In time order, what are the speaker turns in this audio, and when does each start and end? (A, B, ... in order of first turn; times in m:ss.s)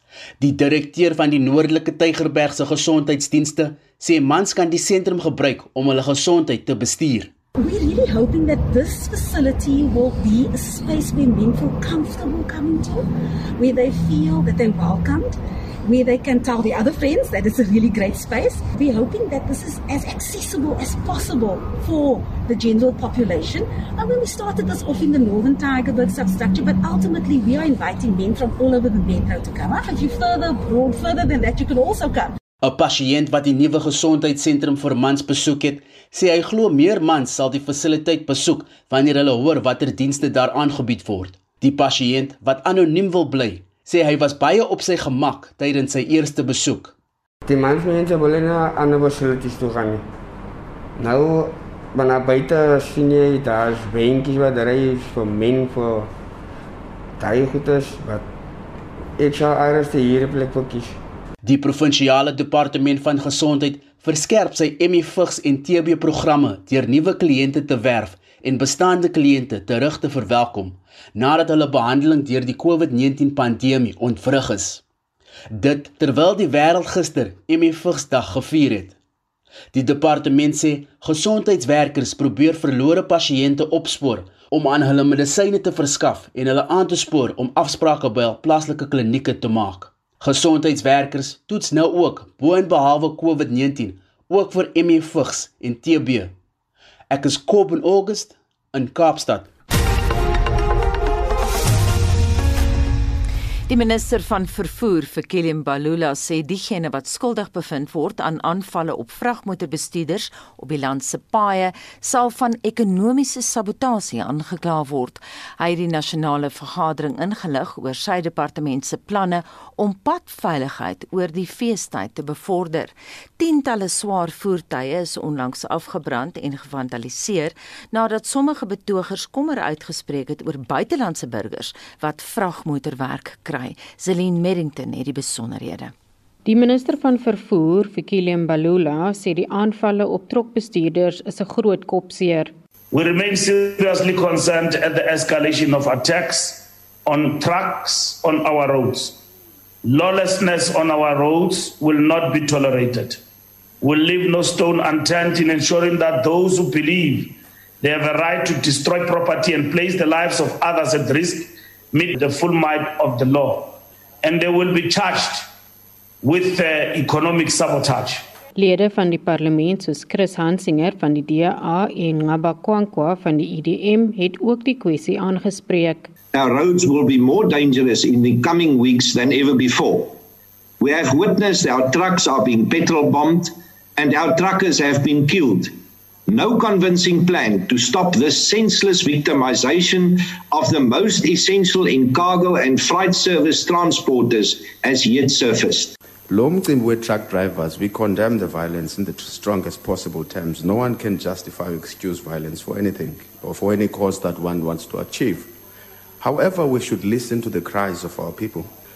0:00.4-0:07.3 A
0:07.6-0:13.1 B
0:13.6-0:32.3 B
0:32.6-0:46.9 A
0:47.4-0:50.0 C
0:51.0-0:56.1 C
0:57.2-0:58.3 C
0:59.2-1:01.0 C
1:01.4-1:14.8 A
1:15.5-1:19.0 A
1:19.7-1:36.3 A
1:37.1-1:39.5 A
1:43.7-2:15.9 D
2:16.4-2:22.5 E
2:22.9-2:29.2 F
2:29.8-2:33.2 F
2:33.8-2:45.5 F
2:46.2-2:48.2 F
2:48.6-2:56.1 E
2:56.3-3:00.2 G
3:00.8-3:05.8 G
3:06.3-3:15.9 G
3:16.3-3:25.5 H
3:26.2-3:28.7 H